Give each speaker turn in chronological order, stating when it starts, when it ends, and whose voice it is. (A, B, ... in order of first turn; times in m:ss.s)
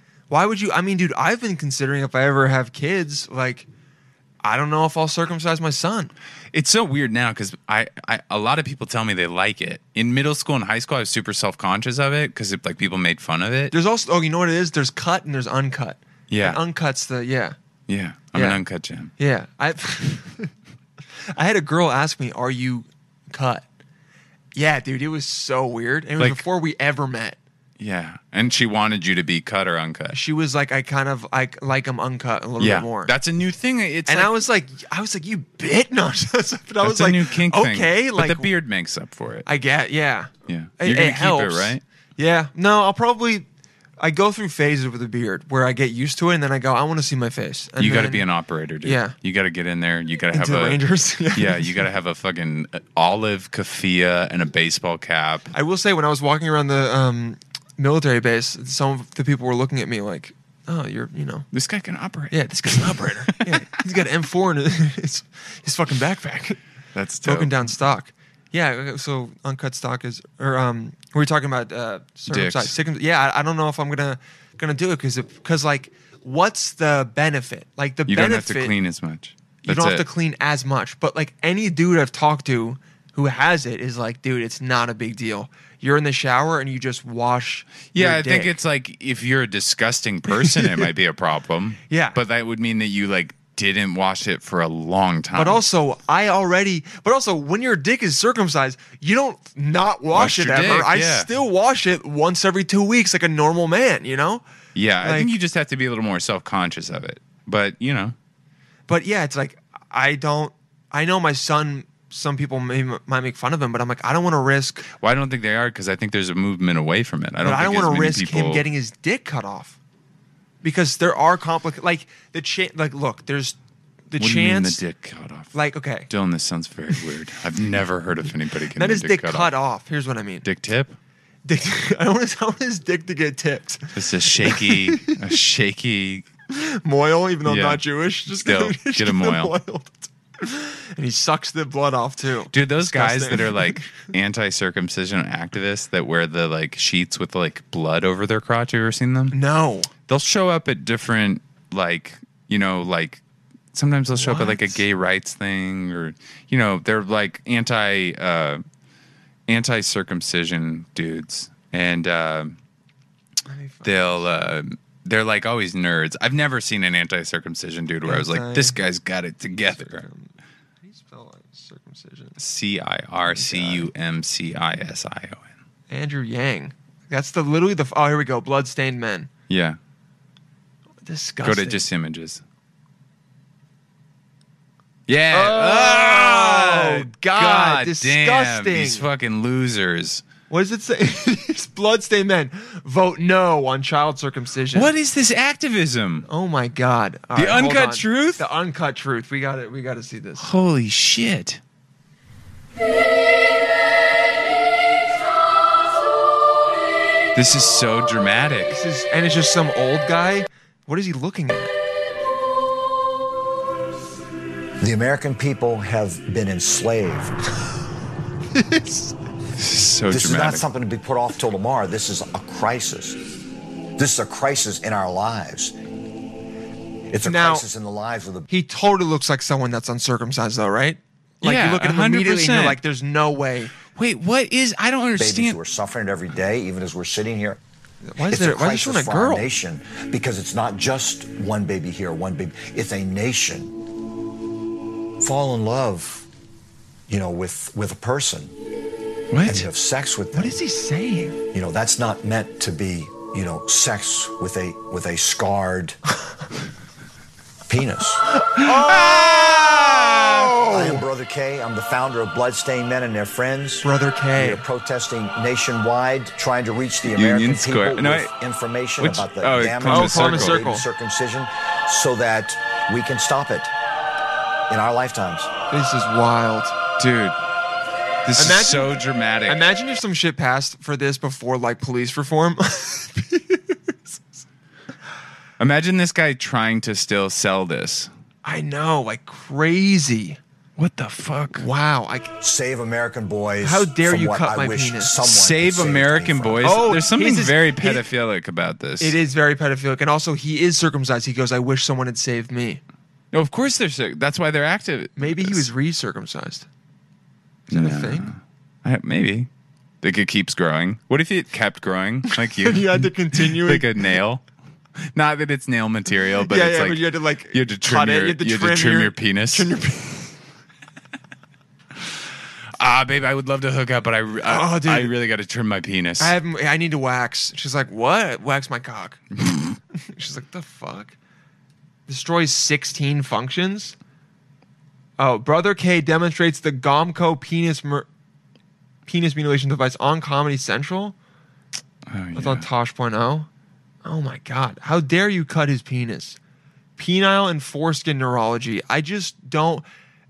0:00.3-0:03.7 A
0:04.4-0:06.1 A
0:06.5-0:13.7 B
0:13.7-0:17.5 A
0:16.3-0:16.6 B
0:17.9-0:19.1 B
0:18.3-0:18.6 A
0:19.2-0:20.5 A
0:21.3-0:23.6 A
0:24.5-0:27.4 A
0:26.2-0:26.4 B
0:27.8-0:30.2 B
0:30.1-0:33.1 A
0:32.6-0:34.4 B
0:34.1-0:38.5 A
0:36.8-0:39.5 B
0:39.4-0:43.4 A
0:40.5-0:41.8 B
0:44.0-0:48.2 A
0:47.8-0:50.8 B
0:48.8-0:49.1 A
0:50.3-0:51.8 A
0:51.3-0:55.5 B
0:55.5-1:01.5 A
1:01.5-1:03.6 B
1:02.3-1:06.6 A
1:06.9-1:07.8 B
1:07.2-1:18.7 A
1:12.3-1:12.7 B
1:18.1-1:20.0 B
1:19.6-1:28.5 A
1:27.9-1:35.6 B
1:30.3-1:30.9 A
1:31.9-1:32.2 A
1:35.3-1:44.4 A
1:40.1-1:41.3 B
1:44.7-1:48.2 B
1:45.0-1:45.3 A
1:48.9-1:54.9 A
1:55.0-1:58.7 B
1:57.4-1:59.8 A
2:00.6-2:03.6 A
2:04.1-2:04.8 A
2:04.2-2:05.5 B
2:05.5-2:06.1 A
2:06.1-2:09.5 B
2:08.7-2:10.4 A
2:10.4-2:11.0 B
2:11.4-2:15.2 A
2:14.0-2:16.2 B
2:16.5-2:23.9 A
2:17.4-2:19.5 B
2:22.5-2:29.4 B
2:29.3-2:29.9 A
2:30.1-2:33.2 B
2:33.7-2:38.6 B
2:34.1-2:34.8 A
2:39.5-2:42.6 B
2:43.4-2:44.2 A
2:43.8-2:50.0 B
2:48.0-2:48.8 A
2:49.6-2:52.4 A
2:52.4-2:55.5 B
2:53.2-2:53.9 A
2:55.9-2:59.3 A
2:59.5-2:59.8 B
3:01.0-3:01.8 A
3:01.4-3:02.4 B
3:05.1-3:10.2 B
3:05.3-3:09.0 A
3:10.5-3:14.9 A
3:14.7-3:16.3 B
3:16.2-3:20.4 A
3:17.3-3:18.4 B
3:20.4-3:21.6 B
3:27.3-3:28.8 B
3:28.7-3:31.7 A
3:34.8-3:37.4 C
3:38.5-3:39.1 A
3:39.6-3:40.6 B
3:40.1-3:43.2 C
3:44.0-3:45.8 C
3:47.1-3:48.5 C
3:47.2-3:47.7 A
3:48.5-3:53.7 A
3:51.4-3:52.8 B
3:53.9-3:55.6 B
3:55.2-3:57.6 C
3:58.1-3:59.5 A
3:58.3-4:03.7 C
4:05.2-4:06.2 C
4:07.1-4:08.5 C
4:09.3-4:09.7 B
4:09.4-4:10.6 C
4:10.3-4:11.4 A
4:11.5-4:16.0 C
4:17.7-4:18.2 C
4:18.4-4:21.0 A
4:18.6-4:20.5 B
4:20.6-4:33.7 C
4:23.8-4:24.6 A
4:27.0-4:28.3 B
4:29.0-4:30.7 B
4:29.8-4:30.8 A
4:34.7-4:35.5 C
4:35.7-4:36.7 A
4:37.0-4:37.4 B
4:38.2-4:39.6 B
4:38.4-4:44.2 A
4:45.6-4:48.1 B
4:48.4-4:50.4 A
4:50.8-4:51.6 B
4:51.5-4:52.3 A
4:52.4-4:56.8 C
4:53.6-4:55.2 A
4:55.2-4:59.2 B
4:56.6-4:58.1 A
4:59.0-5:02.8 A
5:03.3-5:05.7 B
5:05.2-5:06.7 A
5:07.7-5:08.3 A
5:07.7-5:09.5 B
5:10.0-5:14.4 B
5:12.5-5:13.9 A
5:15.0-5:19.7 B
5:16.4-5:20.3 A
5:22.8-5:26.3 B
5:24.4-5:25.1 A
5:26.2-5:29.2 A
5:29.4-5:29.7 B
5:29.9-5:31.1 A
5:32.1-5:33.9 A
5:35.2-5:38.1 A
5:39.0-5:41.1 A
5:42.1-5:42.7 B
5:42.3-5:43.5 A
5:44.0-5:46.4 A
5:47.0-5:49.8 A